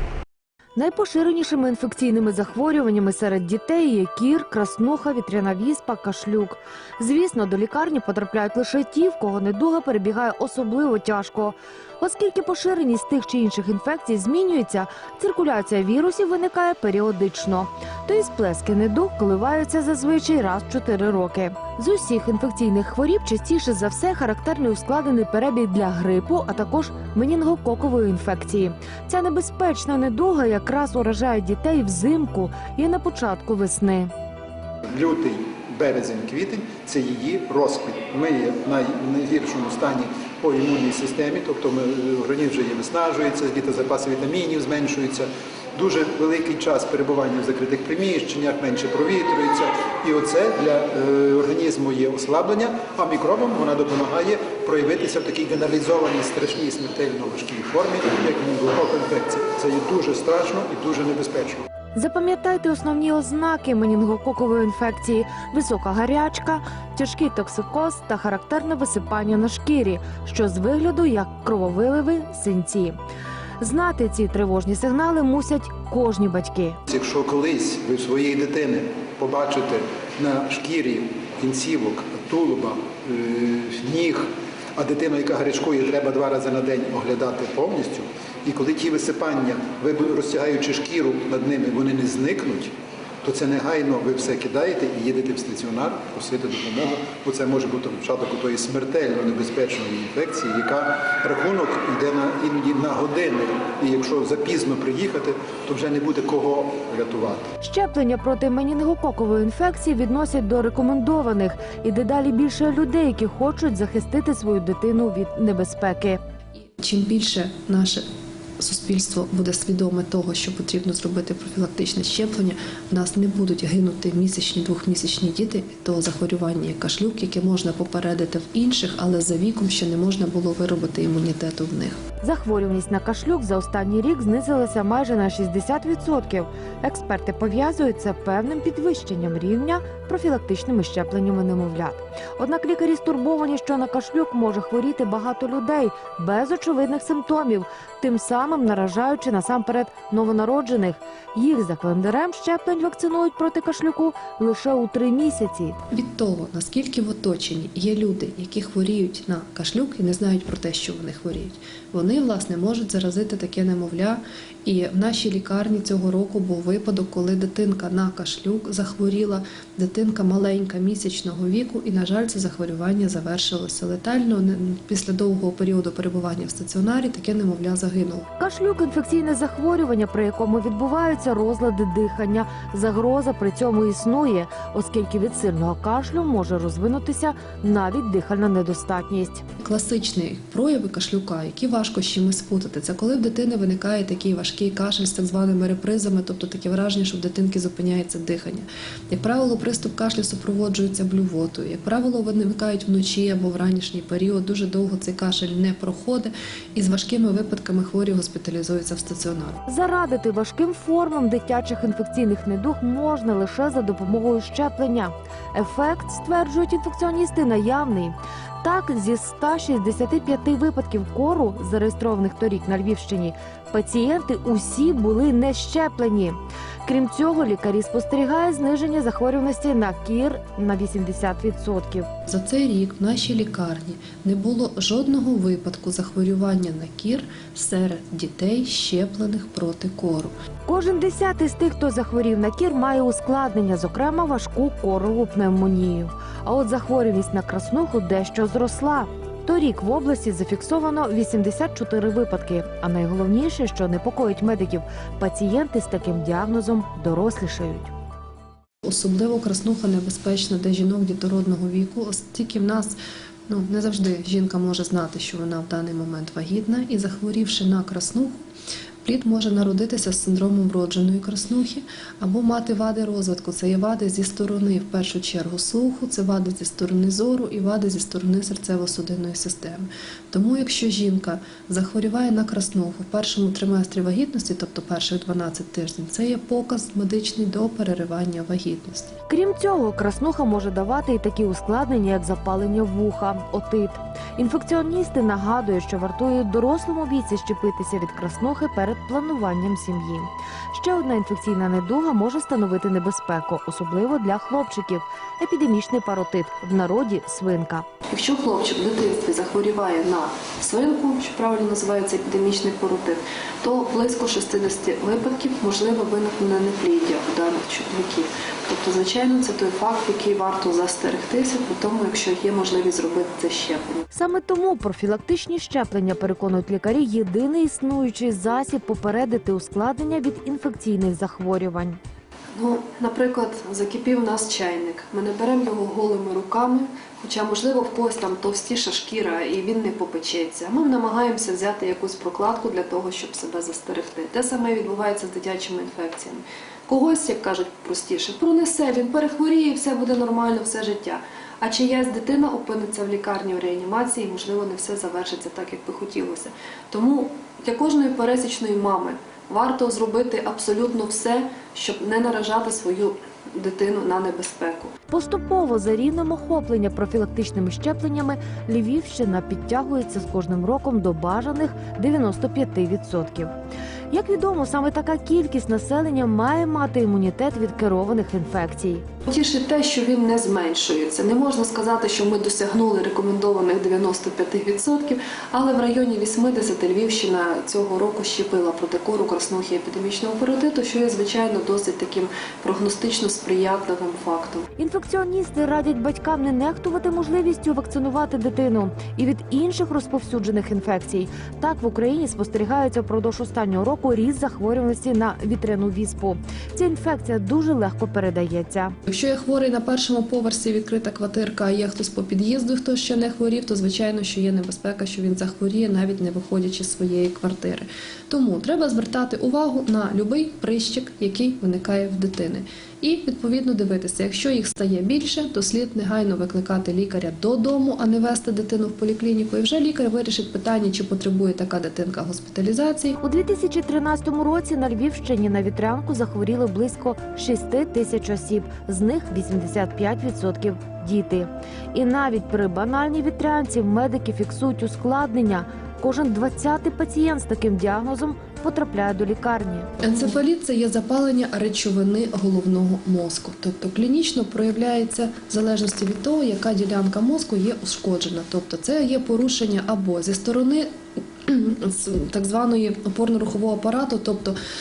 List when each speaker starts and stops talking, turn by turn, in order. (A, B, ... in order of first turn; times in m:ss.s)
0:00.8-0:34.1 A
0:34.9-1:01.6 B
1:02.0-1:13.0 A
1:13.6-1:16.8 A
1:16.9-1:47.5 B
1:47.6-1:56.2 A
1:56.8-1:58.0 C
1:58.6-2:12.0 C
2:12.2-2:35.8 A
2:35.9-2:58.3 C
2:58.4-3:09.4 A
3:09.6-3:29.6 C
3:29.7-3:52.1 A
3:52.2-4:00.3 C
4:00.6-4:17.9 A
4:18.8-4:23.0 C
4:23.5-4:28.4 C
4:29.0-4:49.2 C
4:49.3-5:07.8 A
5:08.1-5:24.0 C
5:24.1-5:32.0 A
5:32.6-6:04.9 C
6:05.1-6:13.5 A
6:14.1-6:19.0 A
6:19.2-6:34.7 C
6:34.8-6:48.9 A
6:49.0-7:13.2 C
7:13.2-7:29.9 A
7:30.0-7:40.9 C
7:41.5-7:44.6 C